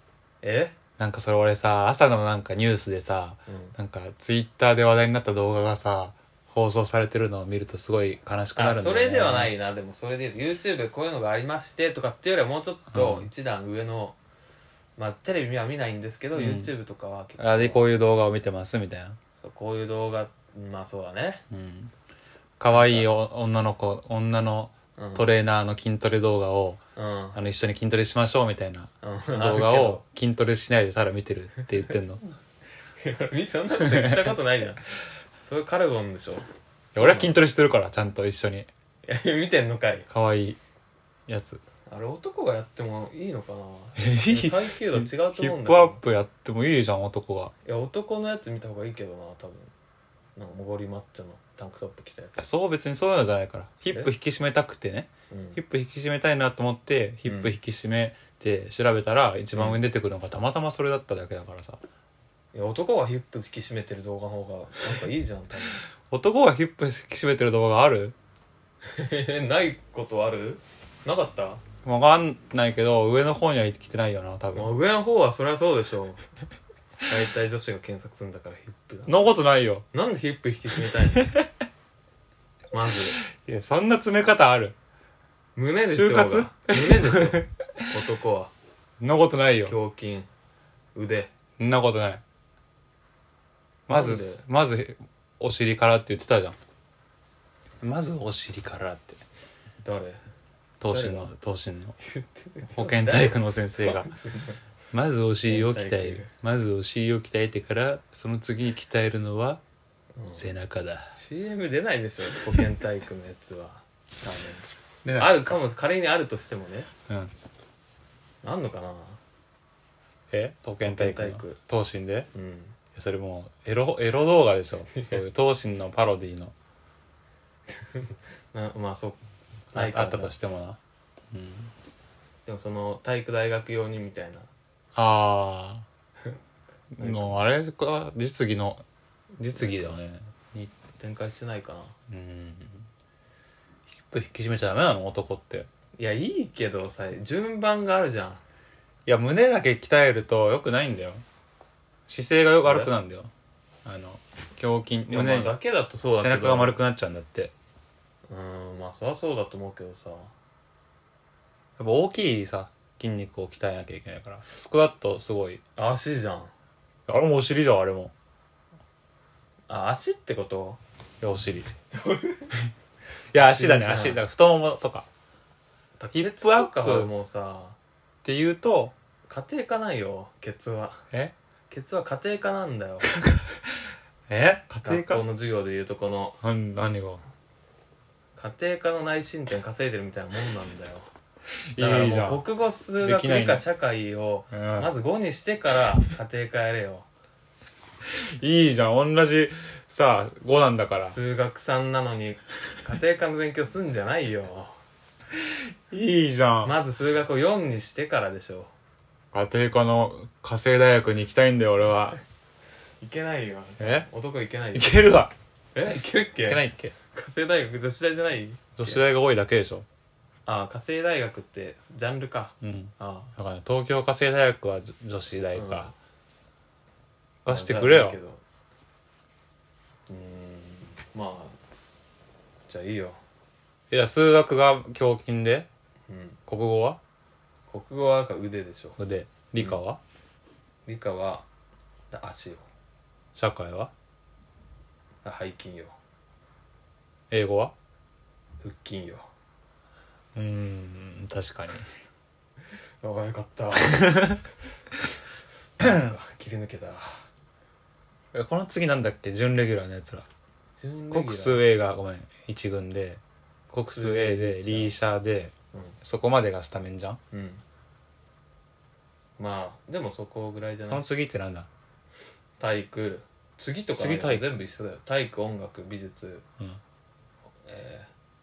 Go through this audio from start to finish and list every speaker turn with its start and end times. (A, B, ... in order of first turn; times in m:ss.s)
0:00.4-0:00.8 A
0:01.0-0:09.5 B
0:03.5-0:03.8 A
0:08.6-0:14.2 A
0:12.9-0:13.3 B
0:15.0-0:18.0 A
0:16.3-0:16.7 B
0:17.4-0:19.2 B
0:19.4-0:21.4 A
0:21.5-0:21.9 B
0:22.6-0:26.8 B
0:22.7-0:23.1 A
0:25.0-0:25.3 A
0:27.0-0:27.4 A
0:27.3-0:32.2 B
0:29.0-0:30.0 A
0:33.0-0:37.4 A
0:33.8-0:34.4 B
0:36.9-0:38.7 B
0:39.0-0:40.1 A
0:40.1-0:40.6 B
0:41.3-0:41.6 B
0:41.9-0:46.0 A
0:44.0-0:47.5 B
0:47.6-0:49.7 A
0:50.4-0:52.4 A
0:52.4-1:01.8 B
0:55.3-0:55.6 A
0:57.2-0:57.5 A
0:59.5-0:59.8 A
1:02.5-1:05.8 A
1:06.1-1:08.2 B
1:08.8-1:11.6 A
1:11.8-1:14.7 B
1:14.5-1:16.2 A
1:17.0-1:19.1 A
1:19.1-1:19.8 B
1:19.9-1:21.3 A
1:22.7-1:23.2 A
1:23.2-1:24.7 B
1:25.5-1:28.5 A
1:25.9-1:27.5 B
1:29.0-1:29.8 B
1:29.7-1:30.3 A
1:30.9-1:31.3 A
1:31.6-1:32.2 B
1:33.9-1:34.4 A
1:33.9-1:36.6 B
1:37.8-1:39.2 B
1:39.8-1:40.2 A
1:40.8-1:42.0 B
1:40.9-1:41.3 A
1:42.0-1:44.6 A
1:42.7-1:44.1 B
1:44.9-1:49.6 B
1:45.4-1:46.3 A
1:50.2-1:50.5 A
1:50.3-1:51.2 B
1:51.1-1:56.9 A
1:55.0-1:55.6 B
1:58.4-1:59.2 A
2:00.3-2:02.3 B
2:00.8-2:01.6 A
2:02.3-2:02.8 A
2:02.9-2:06.5 B
2:07.8-2:09.2 A
2:09.7-2:10.3 A
2:09.7-2:10.8 B
2:11.3-2:11.7 B
2:12.5-2:14.5 A
2:14.9-2:15.8 B
2:16.9-2:18.8 B
2:17.0-2:17.4 A
2:19.4-2:20.7 B
2:20.9-2:21.9 A
2:22.1-2:22.9 B
2:23.9-2:25.7 B
2:26.0-2:28.4 A
2:29.0-2:31.2 B
2:32.1-2:33.3 B
2:32.6-2:32.9 A
2:33.8-2:35.6 B
2:35.1-2:36.8 A
2:36.1-2:37.5 B
2:38.3-2:40.3 A
2:41.8-2:45.6 B
2:45.8-2:46.5 A
2:47.1-2:48.1 B
2:49.7-2:50.8 A
2:51.2-2:51.7 B
2:51.9-2:52.5 A
2:53.3-2:55.1 B
2:53.4-2:54.2 A
2:56.0-2:57.8 A
2:56.1-2:57.1 B
2:58.2-2:58.9 B
2:59.3-3:01.0 A
3:01.7-3:03.1 A
3:03.1-3:03.6 B
3:04.3-3:05.2 B
3:04.8-3:06.4 A
3:06.4-3:07.2 B
3:08.4-3:11.1 A
3:11.7-3:12.4 B
3:11.8-3:17.1 A
3:13.0-3:13.6 B
3:14.5-3:14.9 B
3:18.0-3:21.2 B
3:21.0-3:24.8 A
3:25.9-3:26.8 B
3:26.6-3:28.7 A
3:29.3-3:32.2 B
3:33.0-3:35.0 A
3:33.8-3:34.1 B
3:34.7-3:35.3 B
3:35.7-3:39.0 A
3:36.4-3:36.9 B
3:38.8-3:39.8 B
3:40.5-3:43.3 A
3:42.6-3:45.9 B
3:45.5-3:45.9 A
3:47.4-3:48.2 B
3:47.5-3:48.4 A
3:50.1-3:51.6 A
3:52.7-3:53.2 A
3:53.9-3:55.7 B
3:56.1-3:56.4 A
3:56.5-3:57.0 B
3:57.7-3:59.0 A
3:59.0-4:00.0 B
4:00.8-4:01.5 A
4:02.1-4:02.6 A
4:03.3-4:03.9 B
4:05.2-4:06.0 A
4:07.3-4:07.7 B
4:08.6-4:09.3 A
4:10.3-4:11.8 B
4:13.0-4:14.4 A
4:15.8-4:17.2 A
4:15.8-4:16.1 B
4:18.3-4:20.2 B
4:20.8-4:21.6 A
4:21.1-4:27.2 B
4:23.8-4:24.9 A
4:27.3-4:27.6 A
4:29.4-4:31.0 A
4:30.9-4:31.7 B
4:32.6-4:36.4 A
4:33.9-4:34.5 B
4:37.6-4:38.1 A